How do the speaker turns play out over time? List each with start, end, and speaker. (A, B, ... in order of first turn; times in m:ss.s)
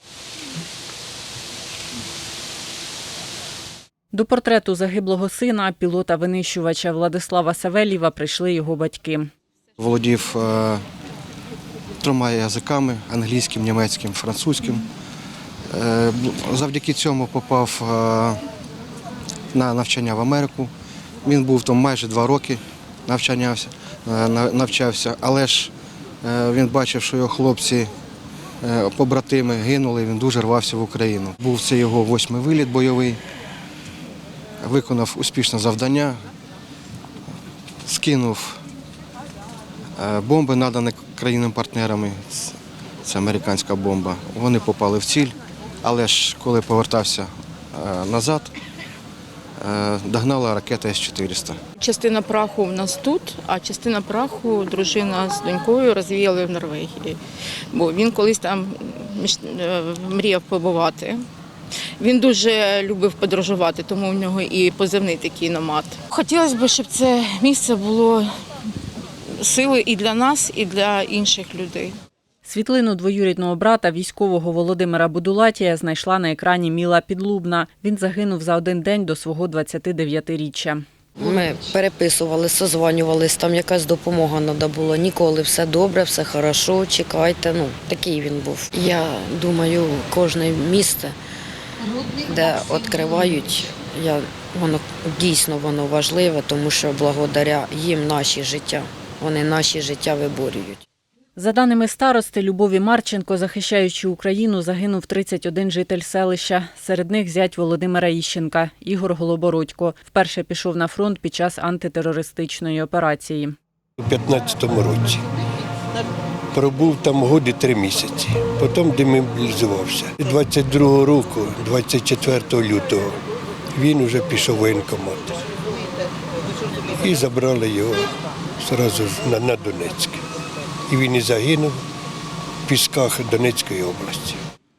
0:04.1-0:09.3 A
0:09.8-0:10.8 B
0:12.0-0:14.9 B
0:15.7-0:18.4 B
0:19.5-0:20.7 B
0:21.2-0:25.7 B
0:26.2-0:27.9 B
0:28.6-0:33.2 B
0:34.6-0:36.2 B
0:37.9-0:38.6 B
0:40.0-0:48.5 B
0:49.6-0:51.6 B
0:51.8-0:57.2 C
0:57.7-1:01.2 C
1:02.0-1:08.3 C
1:09.4-1:12.0 C
1:12.4-1:20.8 A
1:21.2-1:31.2 D
1:32.2-1:40.8 D
1:41.4-1:53.6 A
1:54.0-1:55.2 E
1:56.5-2:03.2 E
2:03.8-2:05.4 E
2:06.9-2:10.2 E
2:10.9-2:11.8 E
2:12.7-2:14.4 E